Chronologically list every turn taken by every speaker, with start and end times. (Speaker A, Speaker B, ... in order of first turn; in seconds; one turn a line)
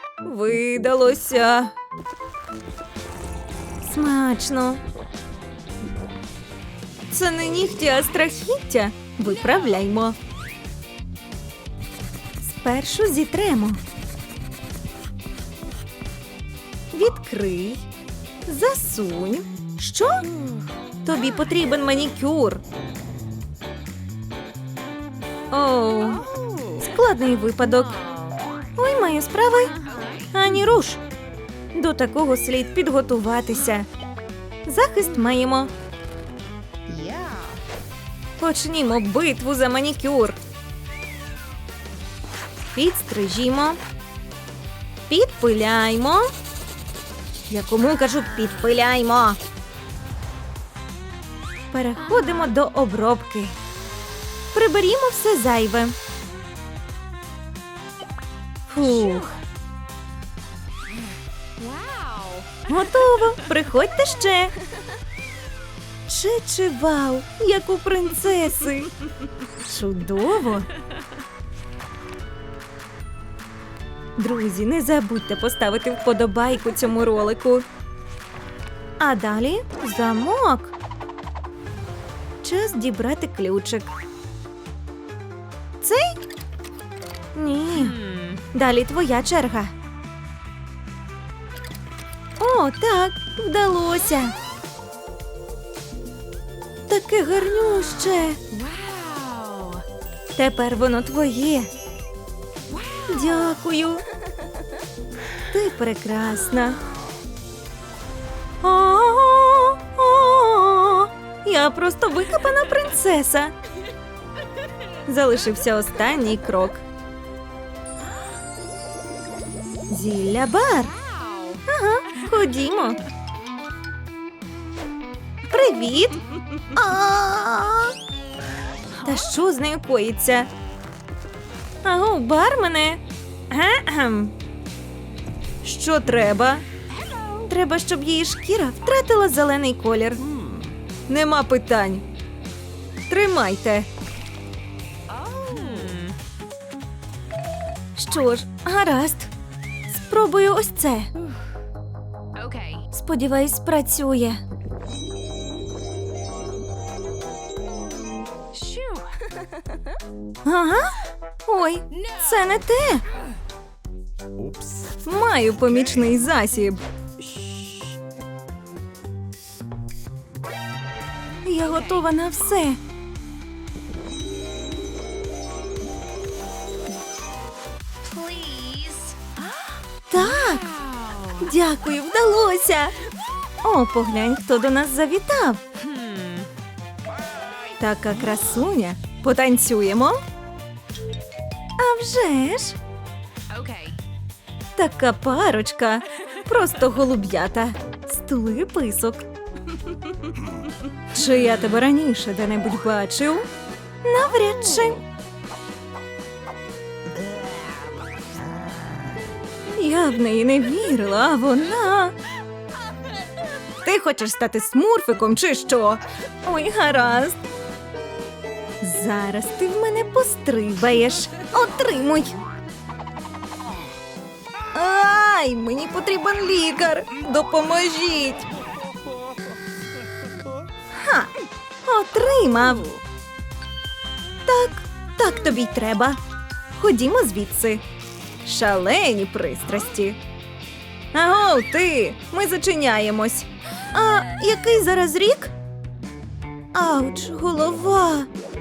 Speaker A: 0.2-1.7
Speaker A: 3.8-4.8
Speaker A: 7.1-10.2
Speaker A: 12.4-13.8
Speaker A: 16.9-17.8
Speaker A: 18.4-20.3
Speaker A: 21.0-22.6
Speaker A: 25.5-28.0
Speaker B: 26.2-26.8
Speaker B: 27.9-28.4
Speaker A: 28.8-29.8
Speaker B: 29.7-30.3
Speaker A: 30.3-31.0
Speaker A: 31.7-33.9
Speaker A: 34.7-35.7
Speaker B: 36.9-37.6
Speaker A: 38.4-40.4
Speaker A: 42.7-43.8
Speaker A: 45.1-46.3
Speaker A: 47.5-49.4
Speaker A: 51.7-53.5
Speaker B: 52.1-52.5
Speaker A: 54.5-55.9
Speaker A: 58.7-59.3
Speaker B: 59.0-59.4
Speaker B: 61.6-62.6
Speaker A: 62.7-64.5
Speaker A: 66.1-68.9
Speaker A: 69.6-70.7
Speaker A: 74.2-77.6
Speaker A: 79.0-80.7
Speaker A: 82.4-83.9
Speaker A: 85.8-86.2
Speaker A: 87.3-88.0
Speaker B: 87.7-88.4
Speaker A: 88.5-89.7
Speaker A: 92.4-94.3
Speaker A: 96.9-98.4
Speaker B: 98.5-99.8
Speaker A: 100.3-101.7
Speaker B: 102.7-103.2
Speaker A: 103.0-104.0
Speaker A: 105.5-106.8
Speaker A: 108.6-113.5
Speaker A: 115.1-116.8
Speaker A: 119.9-121.0
Speaker B: 121.0-121.6
Speaker A: 121.7-123.0
Speaker A: 125.5-127.9
Speaker A: 129.0-130.5
Speaker A: 131.8-134.3
Speaker A: 135.6-136.6
Speaker B: 136.9-137.5
Speaker A: 137.4-140.5
Speaker A: 141.1-142.0
Speaker A: 143.1-143.9
Speaker B: 145.1-146.2
Speaker A: 147.9-149.3
Speaker A: 149.9-151.1
Speaker B: 152.3-152.8
Speaker A: 152.9-154.4
Speaker B: 158.5-159.9
Speaker A: 160.4-163.0
Speaker A: 165.0-166.8
Speaker A: 171.4-172.8
Speaker B: 178.0-181.4
Speaker A: 180.1-180.7
Speaker A: 181.4-182.9
Speaker A: 183.6-185.6
Speaker B: 185.8-186.5
Speaker A: 187.8-190.2
Speaker A: 191.8-192.8
Speaker B: 193.5-194.0
Speaker A: 194.8-199.2
Speaker A: 201.1-203.5
Speaker A: 204.0-205.0
Speaker A: 209.7-212.1
Speaker A: 213.8-217.4
Speaker A: 218.8-222.4
Speaker A: 224.7-228.5
Speaker A: 230.9-231.3
Speaker A: 231.8-232.9
Speaker A: 234.4-236.2
Speaker A: 236.7-237.8
Speaker A: 238.4-240.2
Speaker A: 241.1-245.5
Speaker A: 246.7-248.3